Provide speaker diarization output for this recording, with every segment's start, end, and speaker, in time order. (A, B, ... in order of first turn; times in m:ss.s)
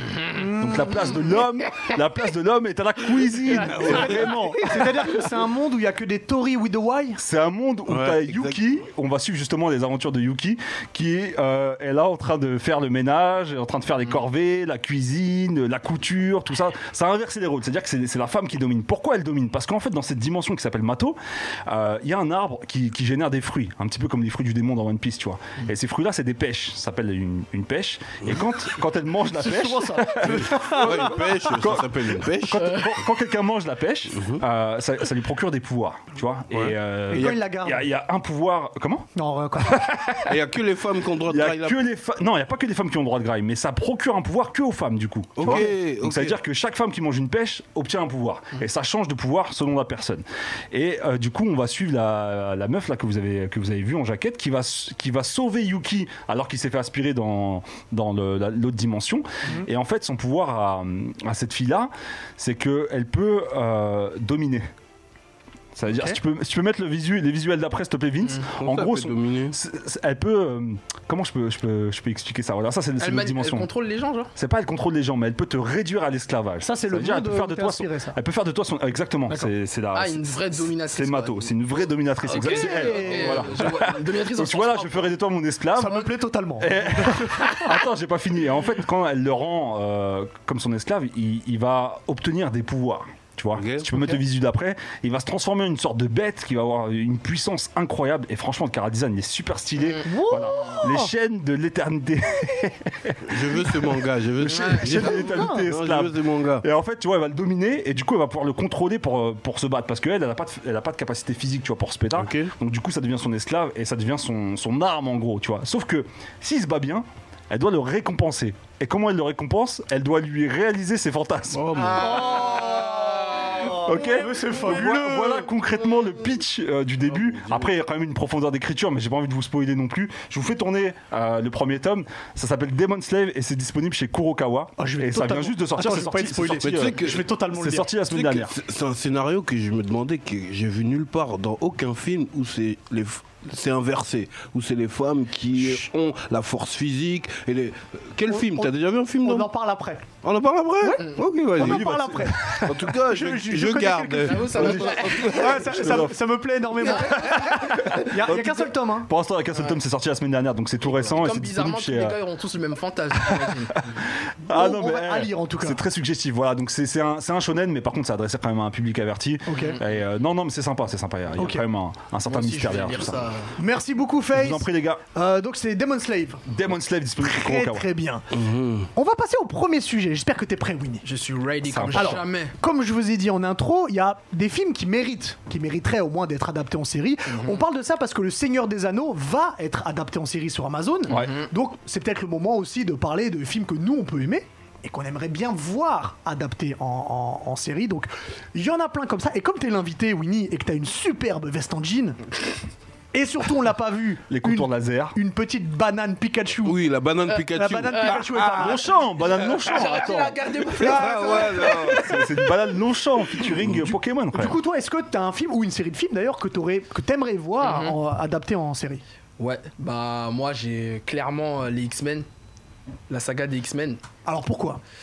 0:00.3-0:04.9 A
0:00.3-0:00.8 B
0:03.6-0:07.2 B
0:03.7-0:04.1 C
0:07.2-0:39.1 A
0:07.9-0:08.6 C
0:29.3-0:31.5 B
0:30.2-0:32.8 C
0:32.6-0:32.9 D
0:34.1-0:34.4 C
0:36.5-0:37.4 C
0:37.1-0:37.8 B
0:39.1-0:39.8 B
0:39.6-0:40.3 A
0:40.2-0:41.8 C
0:41.3-1:04.7 A
0:45.4-0:46.3 C
1:05.7-1:13.7 A
1:05.9-1:06.2 B
1:08.5-1:09.6 C
1:13.0-1:14.3 D
1:14.3-2:01.9 A
1:16.6-1:18.2 B
1:19.9-1:21.5 D
1:22.3-1:25.1 D
1:22.4-1:23.5 B
1:25.7-1:27.8 B
1:33.6-1:33.9 C
1:40.0-1:41.1 B
1:43.2-1:46.6 C
1:44.5-1:45.2 D
1:45.3-1:45.6 B
1:52.2-1:52.5 C
2:01.6-2:02.2 C
2:01.7-2:03.8 D
2:01.9-2:05.5 B
2:03.7-2:18.6 A
2:14.8-2:17.9 B
2:16.6-2:17.3 C
2:18.0-2:29.5 C
2:28.3-2:28.7 B
2:29.2-2:30.1 B
2:30.2-2:32.0 C
2:30.8-2:39.1 B
2:31.5-2:32.7 A
2:32.6-2:36.1 C
2:34.2-2:35.5 D
2:34.5-2:36.2 A
2:36.8-2:42.2 A
2:40.8-2:43.9 D
2:43.2-2:53.3 A
2:44.5-2:45.8 B
2:49.5-2:49.8 B
2:51.4-2:51.6 B
2:52.3-2:53.5 D
2:53.6-2:56.4 B
2:54.3-2:55.0 A
2:56.4-2:57.9 A
2:57.2-2:58.3 B
2:58.3-2:58.9 C
2:58.9-3:01.0 B
3:01.0-3:02.5 D
3:01.6-3:02.2 A
3:01.9-3:22.2 B
3:07.3-3:07.6 D
3:11.1-3:11.4 A
3:11.1-3:11.5 D
3:23.1-3:29.1 B
3:24.3-3:25.2 A
3:26.6-3:28.5 C
3:27.9-3:32.2 D
3:28.5-3:30.4 A
3:30.8-3:32.1 C
3:30.9-3:31.7 B
3:31.9-3:34.6 A
3:34.3-3:39.0 B
3:37.6-3:38.0 D
3:39.4-3:42.2 D
3:43.1-3:44.0 D
3:44.2-3:44.8 B